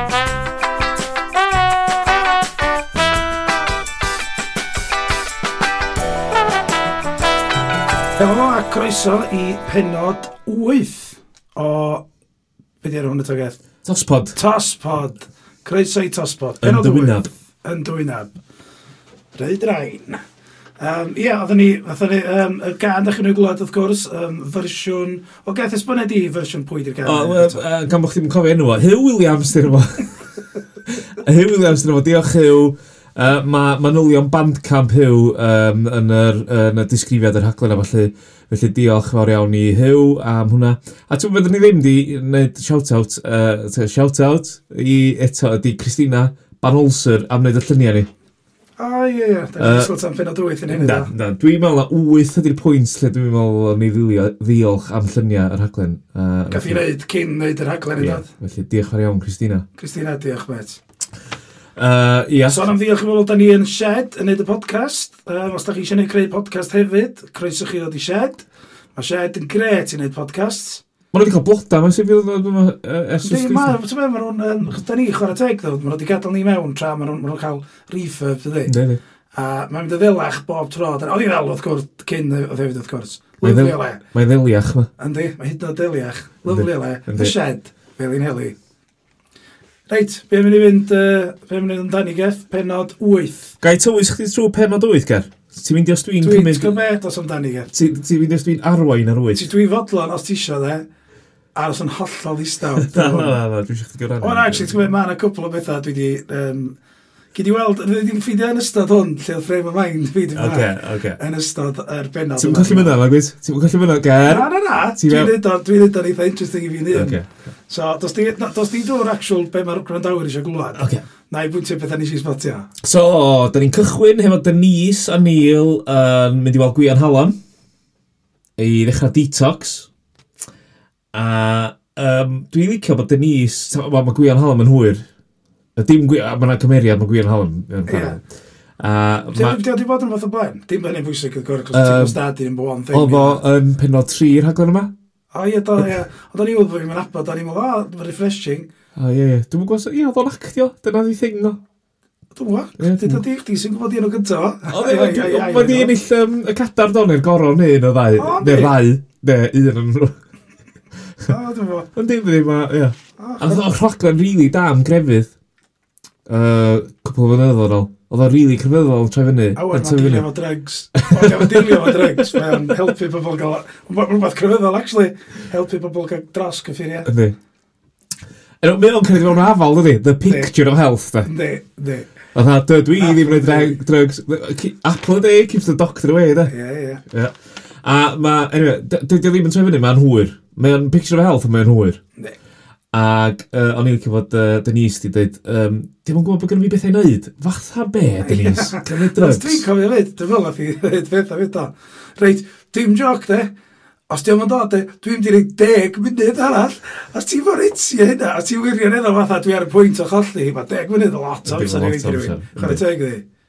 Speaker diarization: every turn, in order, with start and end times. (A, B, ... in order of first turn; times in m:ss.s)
0:08.2-0:12.0 A
0:12.8-0:13.6 A
0:13.8-0:14.4 B
0:14.3-0:18.3 A
0:16.6-0:17.3 B
0:19.3-0:20.2 A
0:20.8-0:27.6 A
0:27.0-0:30.2 B
0:30.9-0:48.1 B
0:48.8-0:51.1 A
0:49.6-0:49.9 B
0:50.7-0:56.8 B
0:56.5-0:58.3 A
0:58.0-0:59.6 B
0:59.7-1:00.8 A
1:01.8-1:02.7 B
1:02.4-1:10.8 A
1:11.1-1:13.8 B
1:13.2-1:18.7 A
1:18.6-1:19.0 B
1:19.3-1:24.0 A
1:23.4-1:24.9 B
1:25.0-1:28.5 A
1:26.5-1:27.3 B
1:29.9-1:33.6 A
1:33.6-1:36.7 B
1:36.2-1:37.7 A
1:37.7-1:39.5 B
1:39.3-1:40.8 A
1:41.5-1:43.4 A
1:42.8-1:44.9 B
1:44.2-1:46.8 A
1:47.3-1:53.0 A
1:50.3-1:51.2 B
1:52.4-1:55.3 B
1:54.3-2:02.7 A
1:56.9-1:57.3 B
2:00.7-2:01.0 B
2:02.8-2:07.3 B
2:08.6-2:09.9 B
2:11.1-2:15.0 B
2:15.8-2:18.2 B
2:17.9-2:18.2 A
2:18.8-2:19.6 B
2:19.3-2:23.4 A
2:21.7-2:22.2 B
2:22.9-2:24.9 B
2:25.3-2:28.7 A
2:29.0-2:31.6 B
2:32.3-2:35.9 A
2:32.8-2:33.2 B
2:34.7-2:40.1 B
2:38.2-2:38.7 A
2:41.3-2:41.9 A
2:42.0-2:45.3 B
2:43.2-2:43.6 A
2:46.3-2:50.3 B
2:49.5-2:57.1 A
2:51.0-2:52.6 B
2:57.0-2:57.3 B
2:58.6-3:01.3 B
3:00.2-3:00.5 A
3:01.2-3:02.1 A
3:02.3-3:06.5 B
3:03.0-3:03.8 A
3:06.5-3:07.0 A
3:07.1-3:12.0 B
3:12.9-3:19.6 B
3:18.2-3:23.5 A
3:24.1-3:33.2 A
3:31.4-3:32.8 B